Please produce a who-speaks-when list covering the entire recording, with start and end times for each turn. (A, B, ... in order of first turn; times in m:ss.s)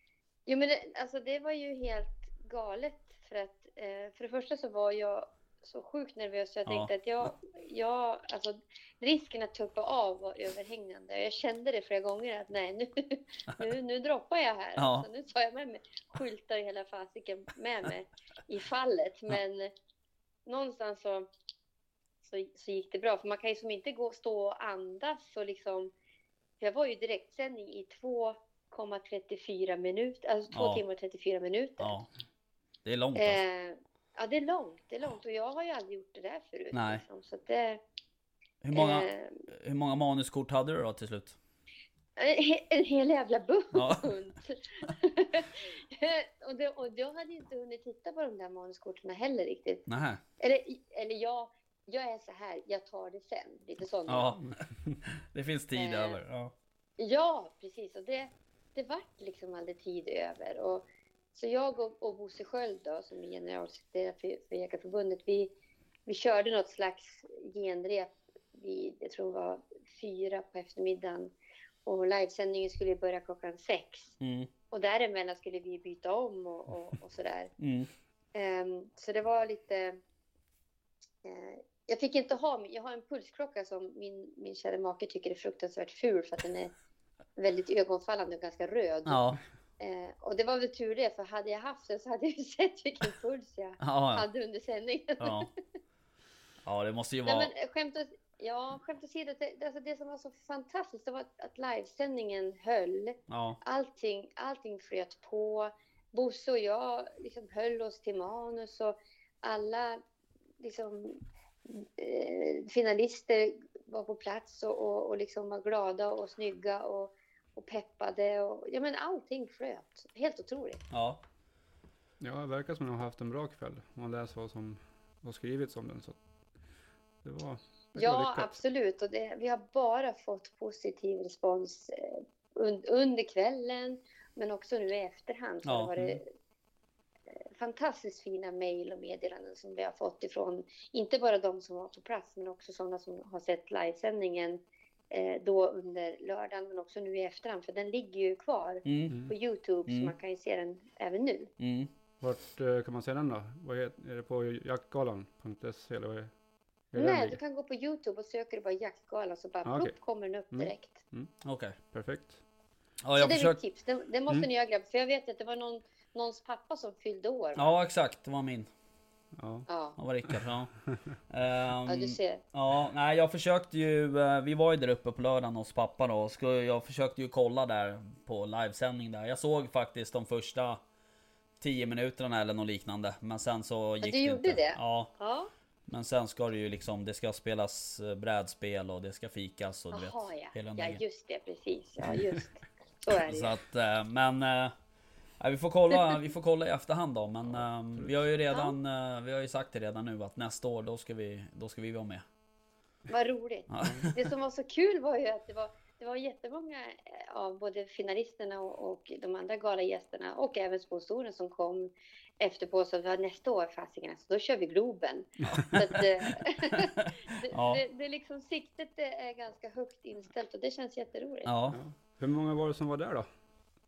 0:00.5-0:19.7 A
0:06.7-0:07.3 B
0:14.8-0:15.1 B
0:20.5-0:21.3 A
0:22.2-0:25.9 A
0:26.6-0:32.0 A
0:30.5-0:30.8 B
0:31.8-0:32.1 B
0:32.8-0:33.4 B
0:33.2-0:37.8 A
0:36.7-0:37.0 B
0:38.6-0:41.4 B
0:38.7-0:39.4 A
0:42.2-0:49.8 A
0:43.7-0:44.1 B
0:49.9-0:50.2 B
0:50.4-0:54.4 A
0:54.1-0:54.5 B
0:55.1-0:56.5 B
0:55.8-0:56.2 A
0:57.0-1:05.5 A
1:06.1-1:11.3 A
1:11.8-1:14.2 A
1:14.2-1:14.5 B
1:14.7-1:17.5 A
1:17.6-1:17.9 B
1:18.3-1:20.0 A
1:21.2-1:26.7 A
1:27.4-1:29.2 A
1:29.1-1:29.4 B
1:29.8-1:35.5 A
1:33.8-1:34.3 B
1:35.2-1:35.5 B
1:36.6-1:37.5 B
1:37.2-1:50.0 A
1:43.3-1:43.6 B
1:50.6-2:00.8 A
2:00.9-2:01.2 B
2:02.2-2:06.2 C
2:07.2-2:08.6 C
2:08.0-2:16.3 A
2:15.6-2:16.2 B
2:17.3-2:31.5 A
2:28.8-2:29.2 B
2:29.9-2:30.1 B
2:31.6-2:31.9 B
2:32.2-2:36.3 C
2:36.9-2:37.4 C
2:37.0-2:41.0 A
2:39.6-2:40.0 C
2:40.5-2:41.3 C
2:41.4-2:41.8 B
2:41.9-2:42.4 C
2:43.0-2:43.6 B
2:43.2-2:47.8 A
2:47.6-2:48.7 B
2:49.4-2:49.7 C
2:49.7-2:50.0 A
2:50.0-2:50.7 B
2:51.3-3:00.8 B
2:51.9-2:52.4 A
3:01.6-3:05.1 B
3:04.0-3:05.5 A
3:05.9-3:11.0 B
3:09.9-3:13.6 A
3:13.2-3:14.7 B
3:15.4-3:22.2 B
3:17.5-3:18.2 C
3:23.1-3:41.5 A
3:23.7-3:24.1 B
3:35.5-3:37.8 B
3:41.5-3:41.8 B
3:41.7-3:43.3 C